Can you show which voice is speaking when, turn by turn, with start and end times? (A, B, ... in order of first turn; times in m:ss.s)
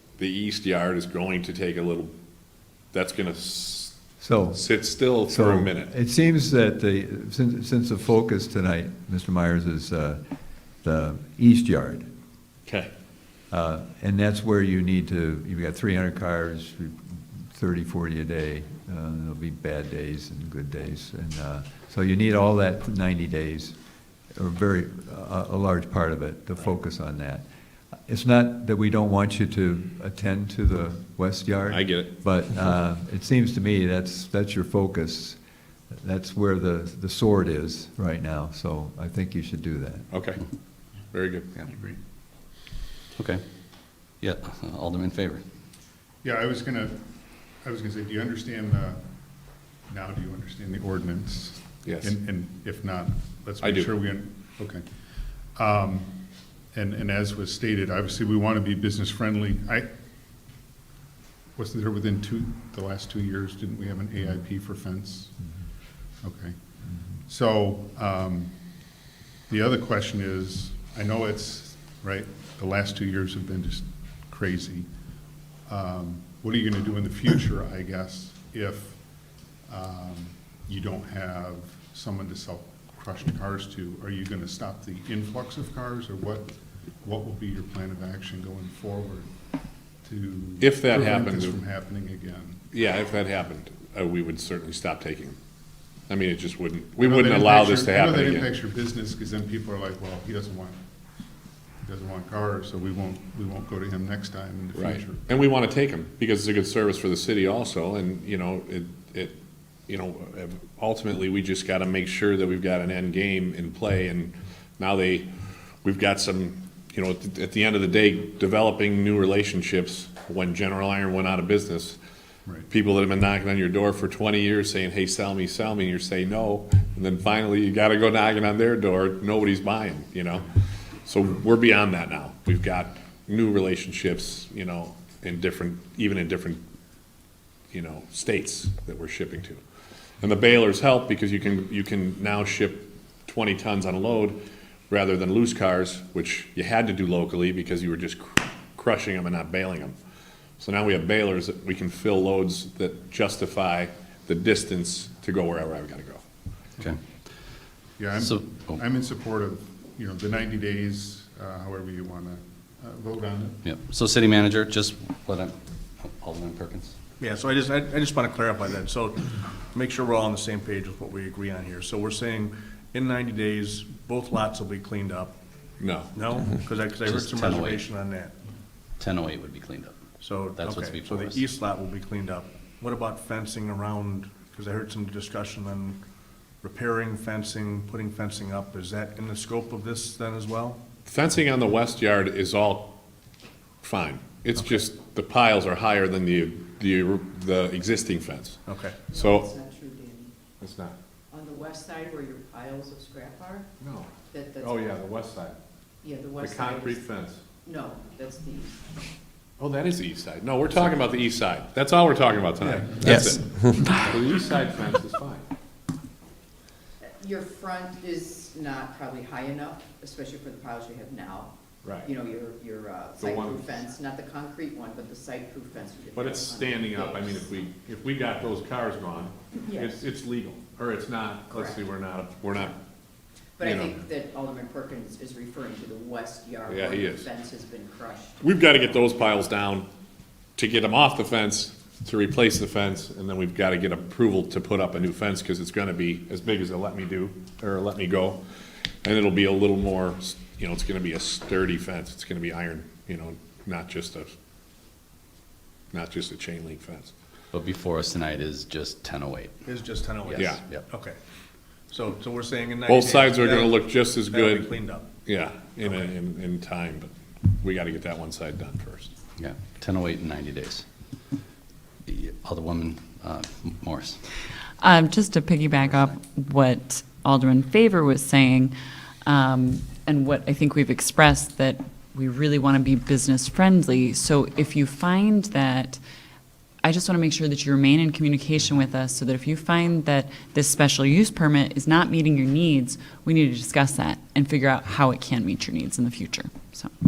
0:00.2-0:02.1 A
0:02.9-0:03.9 A
0:04.2-0:10.2 B
0:04.5-0:05.9 A
0:10.8-0:12.1 B
0:12.6-0:12.9 A
0:13.5-0:23.8 B
0:24.3-0:27.4 B
0:28.1-0:35.4 B
0:31.7-0:32.1 A
0:35.9-0:40.1 B
0:40.1-0:40.4 A
0:41.1-0:41.6 A
0:43.2-0:43.4 C
0:44.2-0:45.4 C
0:46.2-0:49.0 D
0:49.8-0:54.8 D
0:51.8-0:52.2 A
0:53.6-0:53.9 A
0:55.5-0:56.1 D
0:56.7-0:59.9 D
1:01.6-1:05.4 D
1:06.2-1:08.6 D
1:09.5-1:14.9 D
1:15.6-1:19.0 D
1:19.7-1:29.3 D
1:30.0-1:32.6 D
1:30.6-1:31.6 A
1:32.7-1:35.4 A
1:36.1-1:38.5 A
1:37.0-1:40.8 D
1:41.8-1:45.2 D
1:44.7-1:55.3 A
1:55.8-2:02.0 A
2:02.7-2:10.5 A
2:11.0-2:16.6 A
2:17.7-2:19.6 A
2:20.2-2:24.4 A
2:24.9-2:29.9 A
2:30.6-2:36.2 A
2:38.0-2:43.7 D
2:38.2-2:38.8 C
2:43.6-2:46.9 C
2:47.2-2:55.4 E
2:55.8-2:56.1 A
2:56.1-2:58.3 E
2:57.0-2:57.8 C
2:59.0-3:00.0 C
3:00.2-3:06.0 E
3:00.5-3:01.4 C
3:06.6-3:10.8 E
3:11.1-3:13.0 A
3:13.8-3:18.6 A
3:18.7-3:19.0 E
3:19.1-3:19.5 A
3:19.1-3:20.3 F
3:20.6-3:21.0 A
3:21.3-3:23.7 F
3:23.8-3:25.6 A
3:24.3-3:24.8 F
3:26.0-3:27.0 F
3:26.4-3:27.4 A
3:27.6-3:28.8 F
3:29.6-3:35.4 A
3:32.6-3:33.8 B
3:37.1-3:47.5 F
3:41.8-3:42.1 A
3:43.2-3:43.8 A
3:46.1-3:52.8 A
3:49.6-3:50.0 F
3:51.5-3:51.8 F
3:53.6-3:58.4 F
3:53.6-3:54.0 A
3:56.7-3:57.3 A
3:58.4-3:59.9 A
4:00.6-4:08.4 A
4:09.0-4:14.3 A
4:15.9-4:17.1 A
4:17.5-4:19.6 C
4:19.6-4:21.2 E
4:20.2-4:20.8 C
4:20.3-4:20.6 A
4:21.9-4:25.1 E
4:22.8-4:24.7 A
4:25.2-4:29.1 A
4:25.8-4:26.1 E
4:29.4-4:30.8 C
4:32.0-4:34.2 C
4:34.8-4:38.7 G
4:39.2-4:46.0 G
4:46.8-4:56.9 G